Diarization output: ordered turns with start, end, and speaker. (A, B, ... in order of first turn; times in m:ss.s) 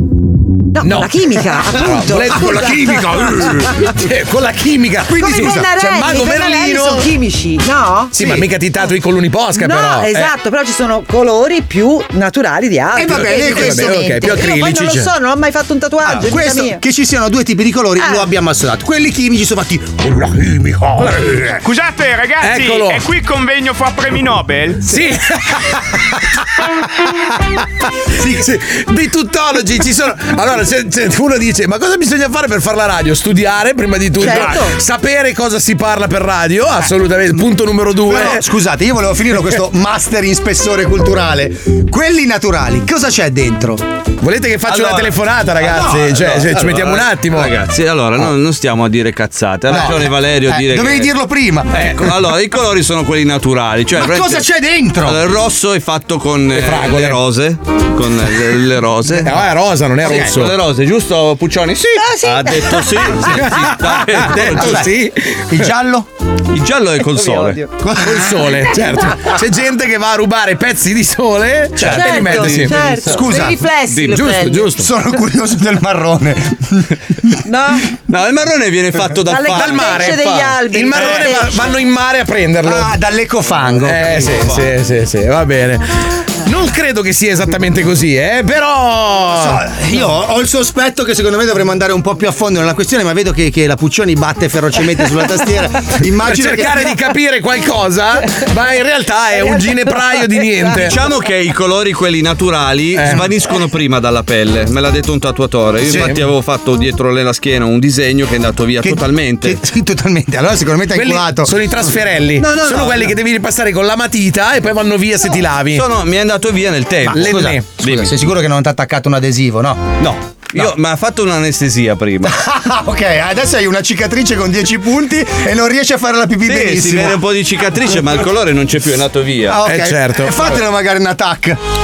0:00.7-0:03.7 A
0:00.8-0:07.1 B
0:02.6-0:03.0 C
0:05.0-0:05.7 C
0:05.1-0:08.3 A
0:08.1-0:10.3 B
0:08.2-0:08.4 C
0:09.5-0:16.8 A
0:12.9-0:14.3 C
0:13.1-0:15.1 B
0:16.0-0:21.6 C
0:18.0-0:18.3 A
0:21.6-0:24.8 D
0:22.4-0:23.0 B
0:24.8-0:26.6 B
0:28.2-0:28.5 C
0:28.4-0:38.4 B
0:34.2-0:34.7 A
0:38.0-0:43.8 C
0:44.2-0:47.5 B
0:44.6-0:51.1 E
0:45.7-0:46.0 C
0:49.7-0:51.8 C
0:51.8-0:54.5 E
0:53.9-0:55.2 C
0:55.0-0:59.4 E
0:56.5-0:57.2 B
0:59.2-1:00.5 B
1:00.0-1:04.9 E
1:00.0-1:00.3 C
1:02.1-1:02.7 A
1:03.3-1:05.7 B
1:04.4-1:04.9 C
1:05.5-1:06.1 C
1:06.5-1:07.6 E
1:07.2-1:07.6 A
1:07.8-1:08.8 C
1:08.0-1:13.0 B
1:11.8-1:13.3 E
1:11.8-1:14.7 A
1:13.0-1:13.6 C
1:13.9-1:14.6 E
1:14.0-1:14.9 B
1:14.7-1:17.3 C
1:17.4-1:17.8 A
1:18.1-1:20.2 E
1:19.2-1:21.8 A
1:19.4-1:22.9 B
1:20.9-1:21.3 E
1:22.6-1:24.6 C
1:23.8-1:25.8 B
1:24.2-1:24.6 E
1:26.4-1:29.6 B
1:29.3-1:36.9 C
1:36.2-1:41.0 B
1:40.7-1:49.6 E
1:43.0-1:43.3 B
1:45.9-1:46.2 B
1:48.8-1:51.9 C
1:50.9-1:55.8 B
1:52.4-1:53.1 E
1:55.7-1:58.2 E
1:57.1-1:59.9 C
1:57.1-1:57.7 B
2:00.0-2:02.3 E
2:02.2-2:07.2 C
2:06.4-2:09.6 E
2:09.5-2:11.6 C
2:09.6-2:10.6 B